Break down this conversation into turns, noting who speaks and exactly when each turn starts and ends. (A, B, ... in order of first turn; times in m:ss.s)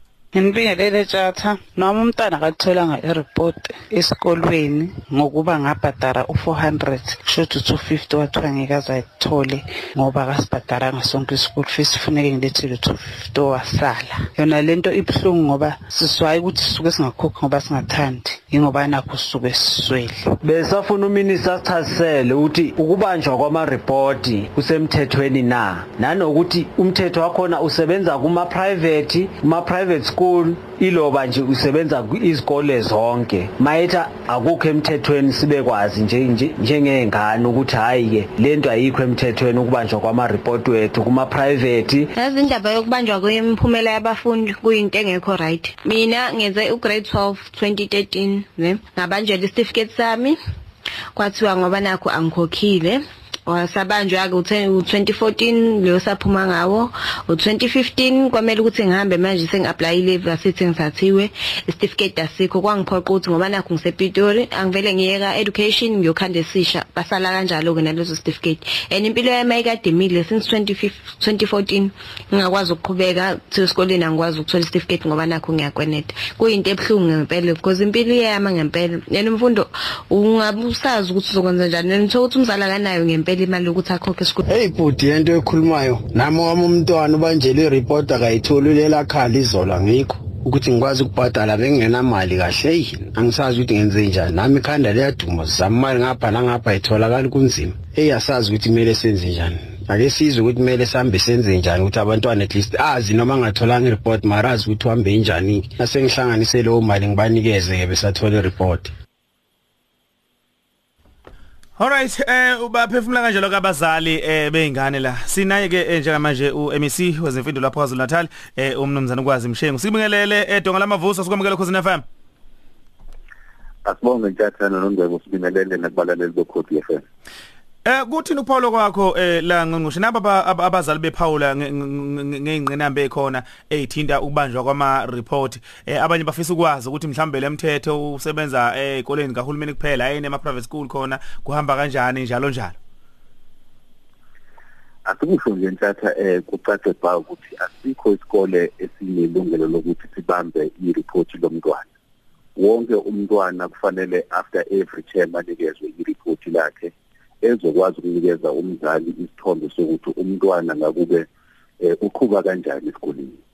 0:00.4-0:20.1 A
0:20.4-0:42.1 B
0:42.2-0:50.4 C
0:51.1-1:24.4 C
1:24.4-1:48.9 D
1:51.8-2:02.0 E
2:03.8-2:07.0 F
2:07.8-2:22.8 E
2:25.0-2:31.9 F
2:32.6-2:41.3 F
2:41.8-2:43.4 F